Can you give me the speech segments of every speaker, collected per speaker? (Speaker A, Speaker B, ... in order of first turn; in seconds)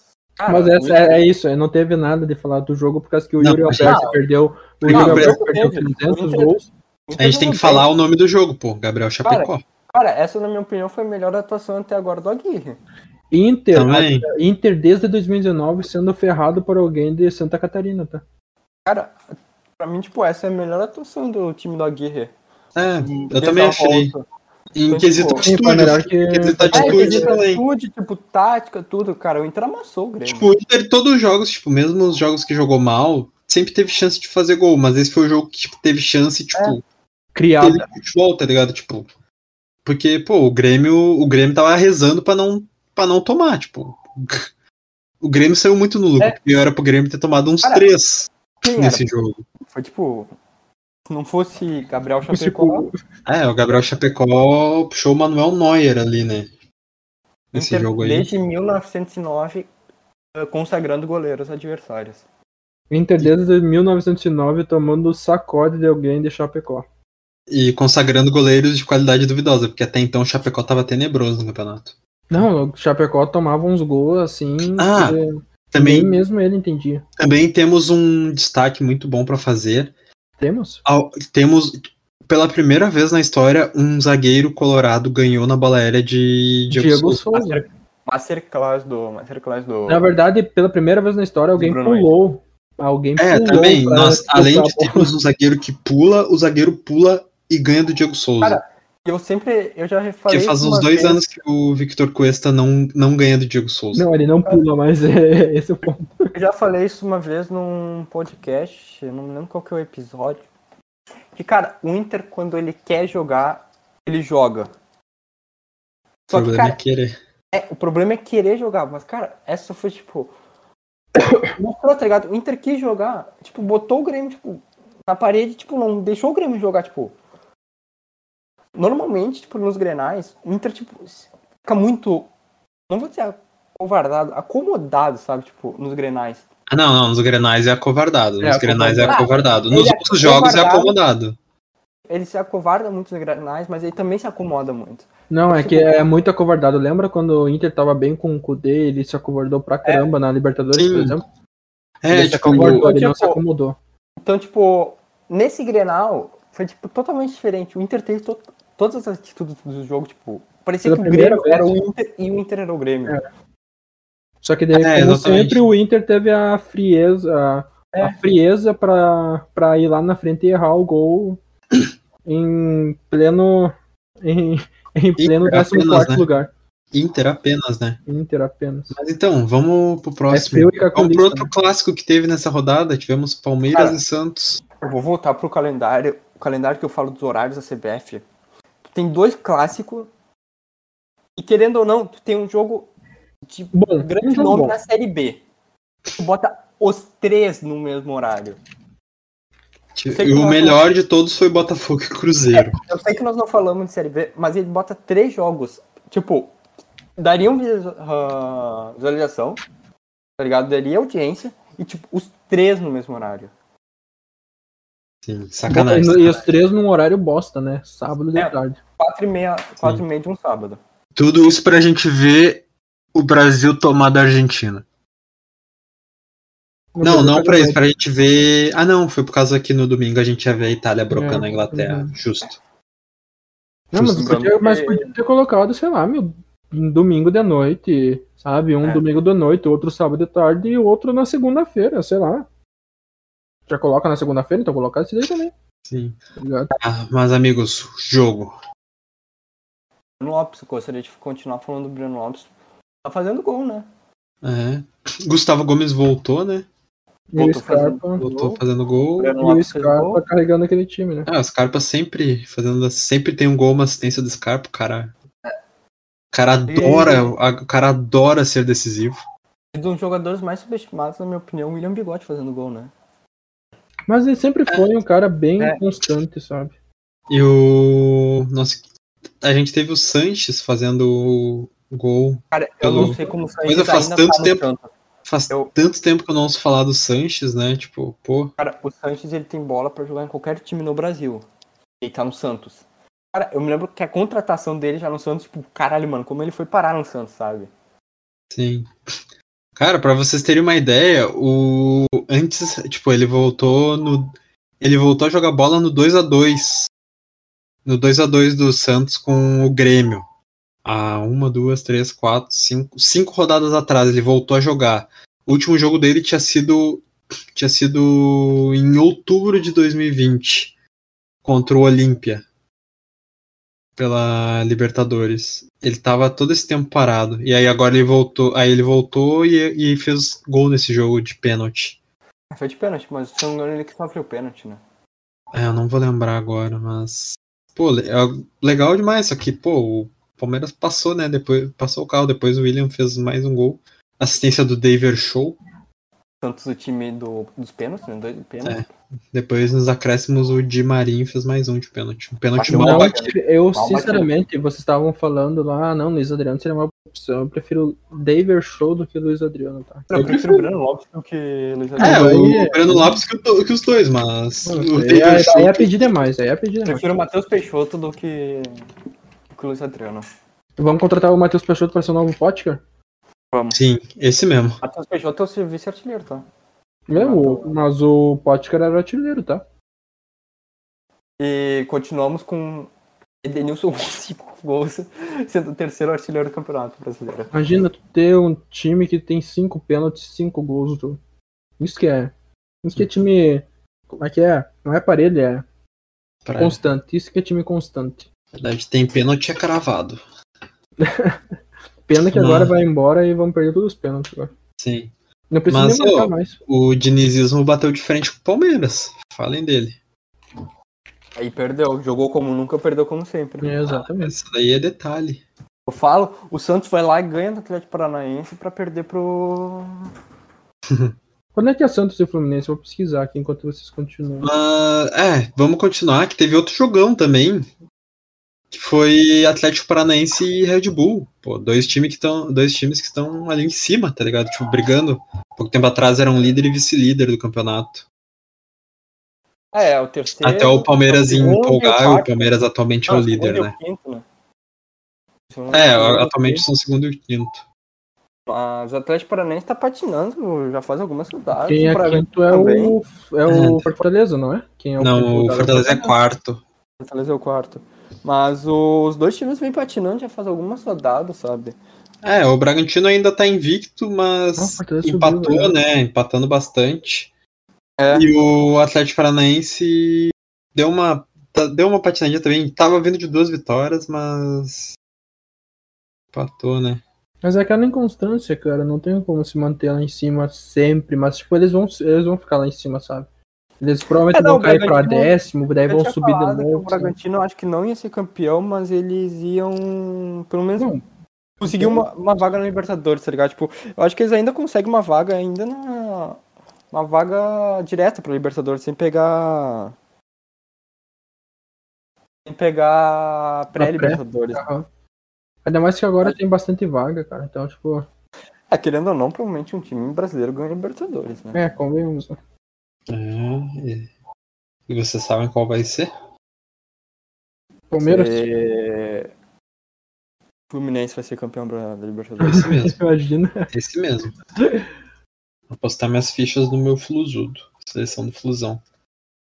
Speaker A: 0.4-1.1, 3.8-4.2, 4.9-6.5, 7.1-7.9, 9.2-12.8, 18.9-19.2, 19.8-22.3, 23.0-24.2, 24.9-25.4, 26.7-30.5, 48.6-49.0, 49.7-50.3, 51.1-52.9, 57.5-59.7, 60.3-62.2, 87.3-90.1, 91.6-92.1, 98.4-101.2, 106.3-110.4, 111.3-114.7, 116.3-116.8, 117.5-120.3, 121.4-127.1, 128.7-132.3, 132.9-136.4, 139.1-140.9, 142.1-146.0, 149.8-150.1, 152.1-153.4, 154.2-163.2, 183.7-184.0, 184.8-188.2, 188.8-190.1, 191.4-192.9, 193.5-195.4, 196.2-198.6, 200.1-200.8, 202.6-206.5, 207.2-209.6, 210.4-213.5, 218.3-220.8, 234.1-235.1, 250.2-252.5, 253.0-253.9, 257.4-258.3, 259.2-260.2, 266.7-267.3, 269.7-272.9, 282.5-284.9, 288.6-291.4, 292.0-297.7, 332.5-334.8, 346.4-348.8, 352.6-354.3, 360.1-362.5, 366.8-368.7, 369.5-370.2, 373.5-373.8, 374.8-376.4, 377.1-377.7, 381.4-382.9, 383.4-387.5, 411.4-413.8, 415.9-420.1, 439.7-442.4, 443.1-444.2, 445.5-446.6, 448.5-452.9, 457.0-461.8, 468.0-468.3, 484.3-485.3, 485.9-490.9, 491.6-496.4, 496.9-499.9, 502.4-504.6, 508.7-511.6, 518.0-519.3, 520.7-522.7
Speaker B: 0.5-6.7, 13.3-18.2, 25.4-27.3, 37.3-37.9, 52.3-52.9, 62.9-66.8, 72.3-77.0, 80.4-80.8, 86.7-87.6, 89.9-95.1, 103.9-106.3, 121.2-121.5, 138.4-139.2, 145.3-151.2, 152.1-153.8, 160.8-161.7, 164.4-171.4, 172.2-176.5, 178.1-178.9, 180.3-181.5, 193.7-194.7, 215.7-218.8, 226.9-227.8, 231.1-232.1, 233.9-242.4, 243.7-245.5, 246.4-246.7, 257.3-258.5, 259.4-261.3, 274.1-276.7, 352.7-360.1, 362.0-363.2, 364.6-367.0, 370.8-372.8, 377.1-379.6, 387.5-391.2, 391.8-392.3, 392.8-395.6, 396.6-398.3, 401.0-401.4, 402.1-404.5, 405.5-406.6, 413.6-414.3, 421.5-424.5, 451.7-456.1, 464.6-465.7, 477.4-483.3, 483.8-487.1, 491.6-492.1, 503.8-504.9, 505.6-508.1, 511.5-512.4, 517.9-518.4, 522.4-523.7
Speaker C: 3.4-4.0, 4.8-5.4, 7.2-9.6, 13.7-14.3, 22.8-24.1, 24.8-27.6, 30.2-36.8, 37.6-39.1, 39.8-44.5, 45.2-49.4, 53.2-56.5, 57.5-58.3, 67.5-72.4, 74.7-75.2, 75.7-76.1, 77.2-79.9, 80.8-87.2, 93.2-98.6, 100.3-104.0, 116.3-117.2, 136.7-141.4, 150.7-151.2, 152.0-152.9, 164.7-165.7, 175.2-176.2, 176.9-178.0, 178.9-184.6, 199.9-202.8, 215.2-216.4, 221.2-222.6, 223.1-224.8, 227.0-232.6, 245.8-246.2, 246.7-248.6, 254.4-256.7, 258.2-259.4, 261.2-265.1, 266.3-269.2, 277.3-278.8, 279.4-284.6, 285.2-288.5, 298.5-298.9, 299.8-306.9, 307.8-310.2, 310.8-320.7, 321.4-322.4, 324.0-332.0, 335.5-345.6, 348.6-353.3, 360.1-360.6, 362.0-366.1, 373.7-374.8, 396.4-396.8, 398.5-400.2, 402.3-402.7, 404.8-405.1, 405.7-410.0, 413.9-415.4, 420.9-421.1, 424.4-427.7, 428.7-438.0, 440.4-443.7, 445.7-447.6, 453.5-453.9, 455.0-456.6, 462.2-467.3, 468.1-475.0, 476.3-477.0, 513.1-514.1, 514.9-516.1, 522.5-523.0, 523.7-524.3, 525.7-528.8